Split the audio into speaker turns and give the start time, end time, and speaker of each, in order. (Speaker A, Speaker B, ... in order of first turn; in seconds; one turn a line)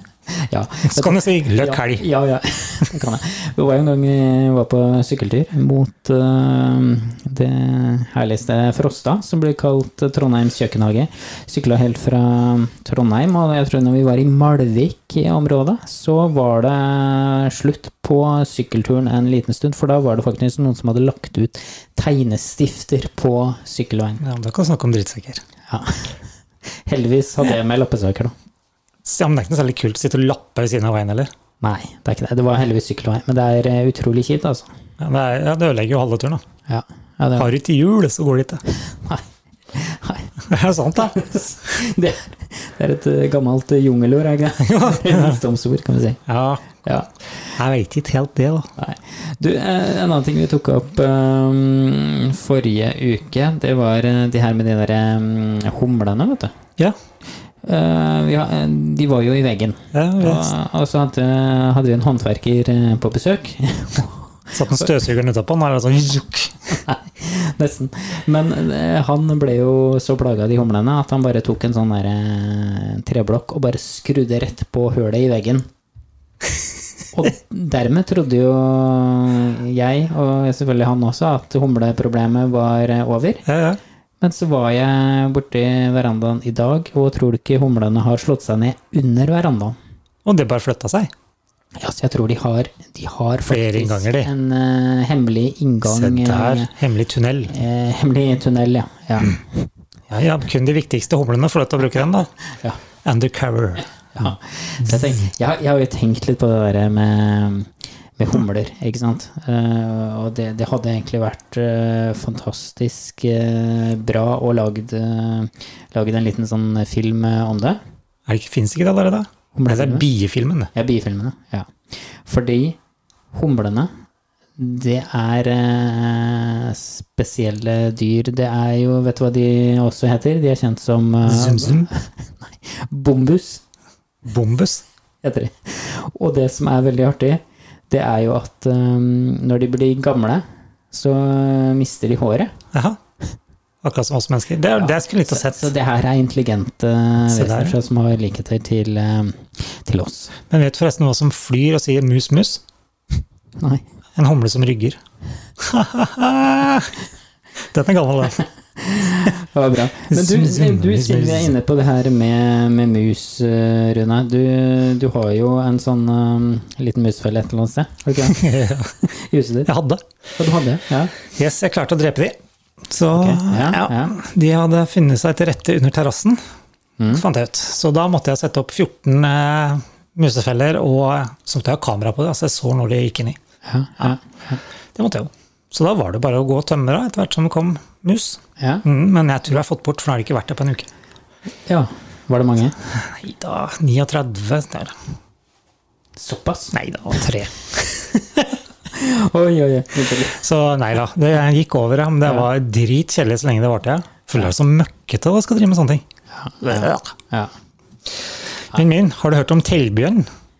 Speaker A: 0.3-24.2
Speaker B: 0.9-2.1
Speaker B: 24.2-25.4
Speaker A: 25.7-26.1
Speaker A: 26.8-28.3
Speaker B: 29.0-31.3
Speaker A: 31.6-34.7
Speaker B: 35.0-36.4
Speaker A: 36.7-37.5
Speaker B: 37.4-38.6
Speaker A: 38.7-40.4
Speaker B: 40.4-41.2
Speaker A: 41.0-46.2
Speaker B: 44.6-45.4
Speaker B: 46.3-46.8
Speaker A: 46.8-47.1
Speaker B: 47.5-48.7
Speaker A: 48.8-56.5
Speaker A: 57.6-64.9
Speaker B: 59.9-60.5
Speaker B: 64.5-66.7
Speaker A: 66.8-75.7
Speaker A: 77.1-83.4
Speaker B: 83.4-83.8
Speaker A: 84.2-89.8
Speaker B: 90.2-91.1
Speaker A: 91.8-96.7
Speaker B: 93.5-94.3
Speaker B: 95.8-97.5
Speaker A: 97.5-99.7
Speaker B: 100.1-102.3
Speaker B: 103.0-104.3
Speaker A: 104.2-117.8
Speaker B: 118.3-120.7
Speaker A: 119.5-120.1
Speaker A: 120.7-122.8
Speaker A: 123.3-123.9
Speaker A: 124.6-133.6
Speaker B: 131.2-131.9
Speaker B: 134.2-134.8
Speaker A: 135.2-142.5
Speaker B: 142.7-143.0
Speaker B: 143.8-145.7
Speaker A: 144.8-150.3
Speaker B: 147.3-147.8
Speaker B: 150.5-152.6
Speaker A: 153.6-153.8
Speaker B: 154.2-155.0
Speaker B: 155.6-156.9
Speaker B: 157.6-158.4
Speaker A: 158.8-168.4
Speaker B: 160.1-161.5
Speaker B: 168.2-169.0
Speaker A: 169.0-169.7
Speaker B: 169.7-170.0
Speaker A: 170.4-171.1
Speaker B: 171.2-176.4
Speaker A: 173.1-174.1
Speaker A: 177.0-177.2
Speaker B: 177.1-183.4
Speaker A: 183.6-184.6
Speaker B: 184.9-190.9
Speaker A: 188.6-188.8
Speaker A: 191.7-192.8
Speaker B: 192.9-194.9
Speaker A: 196.2-196.7
Speaker B: 196.7-197.7
Speaker A: 198.1-200.4
Speaker B: 200.2-206.0
Speaker A: 206.3-207.5
Speaker B: 206.6-207.1
Speaker B: 208.7-210.2